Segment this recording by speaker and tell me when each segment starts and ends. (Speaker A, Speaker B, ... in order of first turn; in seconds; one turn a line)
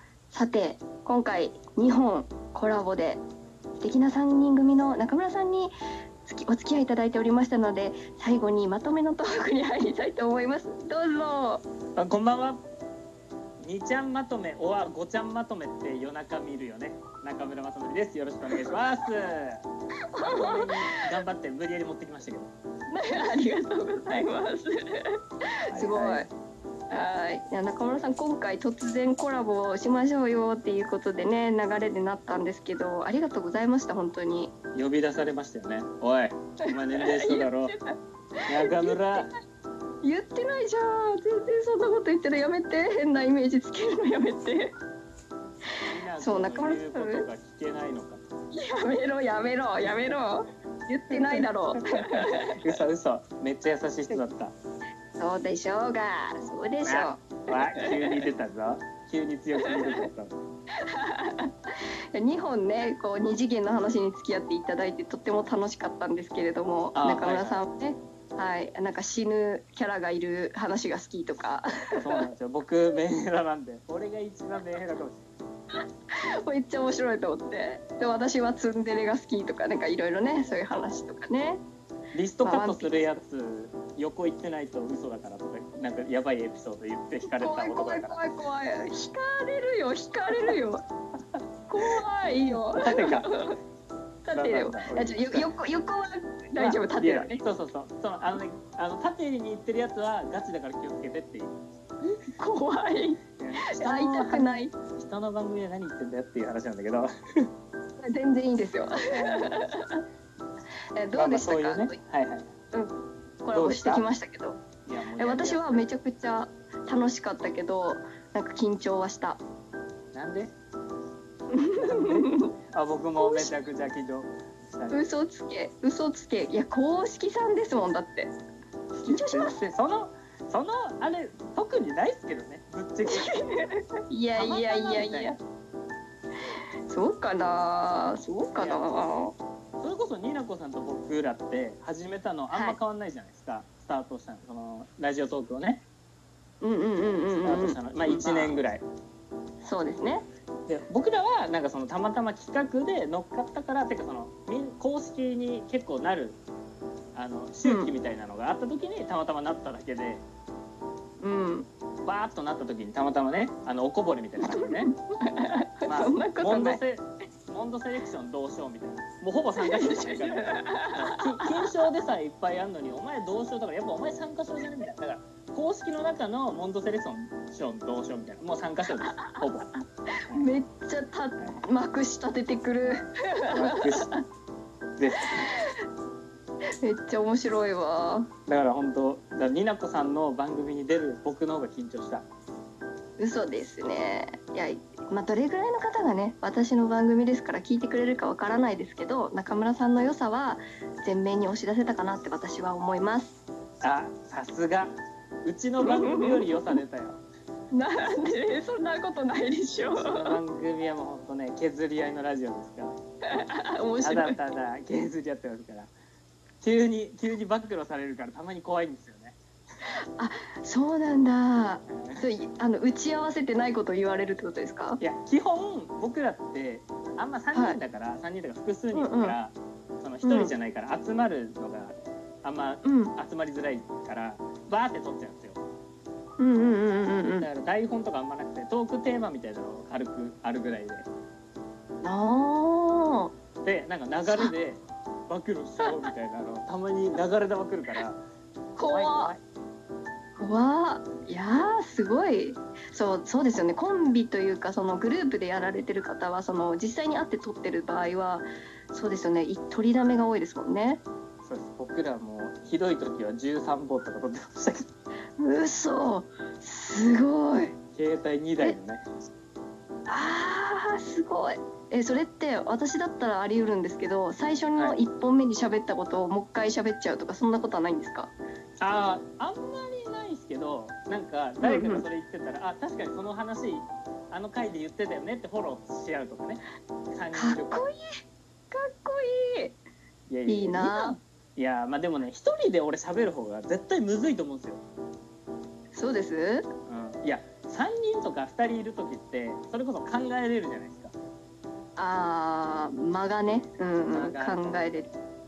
Speaker A: 0.3-3.2
Speaker A: 3.8-5.7
Speaker A: 6.2-11.6
Speaker B: 12.0-12.6
Speaker B: 13.6-19.6
Speaker A: 20.1-21.0
Speaker B: 20.2-22.5
Speaker A: 22.9-26.3
Speaker B: 25.7-26.3
Speaker A: 26.9-34.5
Speaker B: 34.7-37.7
Speaker A: 36.6-39.3
Speaker B: 38.5-39.3
Speaker A: 40.0-44.7
Speaker B: 45.8-48.3
Speaker A: 46.2-47.3
Speaker A: 48.5-52.6
Speaker B: 51.1-54.5
Speaker A: 55.2-58.2
Speaker B: 56.8-60.3
Speaker A: 59.6-60.0
Speaker A: 60.8-61.5
Speaker A: 62.1-72.3
Speaker B: 66.9-67.6
Speaker B: 71.9-75.2
Speaker A: 76.1-81.6
Speaker B: 82.1-88.2
Speaker A: 82.4-82.9
Speaker A: 87.2-90.8
Speaker A: 91.7-93.5
Speaker B: 92.7-93.3
Speaker A: 94.2-97.4
Speaker B: 94.3-95.5
Speaker B: 96.6-101.6
Speaker A: 102.4-104.7
Speaker B: 103.4-107.5
Speaker A: 108.0-110.0
Speaker B: 109.1-109.6
Speaker A: 111.0-112.0
Speaker B: 111.1-112.5
Speaker A: 112.7-114.6
Speaker B: 113.5-114.0
Speaker B: 114.9-115.9
Speaker A: 115.2-119.4
Speaker B: 120.1-120.5
Speaker A: 121.5-122.5
Speaker B: 121.7-125.0
Speaker A: 123.2-123.6
Speaker A: 124.9-128.3
Speaker B: 128.9-133.4
Speaker A: 129.1-129.6
Speaker A: 133.1-135.4
Speaker B: 134.3-135.4
Speaker A: 136.9-139.3
Speaker B: 138.6-139.0
Speaker B: 139.8-145.8
Speaker A: 142.5-142.8
Speaker A: 146.6-148.6
Speaker B: 147.3-148.8
Speaker A: 149.6-150.2
Speaker B: 150.7-156.4
Speaker B: 157.1-160.2
Speaker A: 157.6-157.9
Speaker A: 161.2-161.7
Speaker B: 162.0-164.9
Speaker A: 164.4-166.8
Speaker B: 165.8-179.7
Speaker A: 169.6-171.7
Speaker A: 178.9-179.4
Speaker A: 180.2-184.2
Speaker B: 182.8-184.1
Speaker B: 185.0-185.5
Speaker A: 185.3-185.8
Speaker A: 186.8-188.3
Speaker B: 188.5-192.2
Speaker A: 193.2-203.4
Speaker B: 203.8-207.2
Speaker A: 205.8-206.7
Speaker A: 207.7-210.4
Speaker B: 209.7-213.0
Speaker A: 213.3-214.4
Speaker B: 214.0-215.9
Speaker B: 216.6-219.3
Speaker A: 219.8-225.0
Speaker B: 221.9-222.3
Speaker B: 225.0-235.6
Speaker A: 228.9-229.3
Speaker A: 230.2-230.5
Speaker A: 232.8-233.1
Speaker A: 236.4-237.5
Speaker B: 237.4-241.1
Speaker A: 242.0-243.3
Speaker B: 243.6-248.2
Speaker A: 248.8-249.3
Speaker B: 248.8-249.4
Speaker A: 250.4-261.0
Speaker B: 261.4-264.9
Speaker A: 265.4-267.7
Speaker B: 267.9-269.0
Speaker A: 270.1-278.3
Speaker B: 278.8-286.6
Speaker A: 281.6-282.0
Speaker B: 287.1-287.9
Speaker A: 287.3-288.1
Speaker A: 288.7-289.8
Speaker B: 290.3-294.8
Speaker A: 290.5-291.2
Speaker A: 295.9-296.6
Speaker B: 296.9-301.1
Speaker A: 302.0-305.1
Speaker B: 304.1-304.8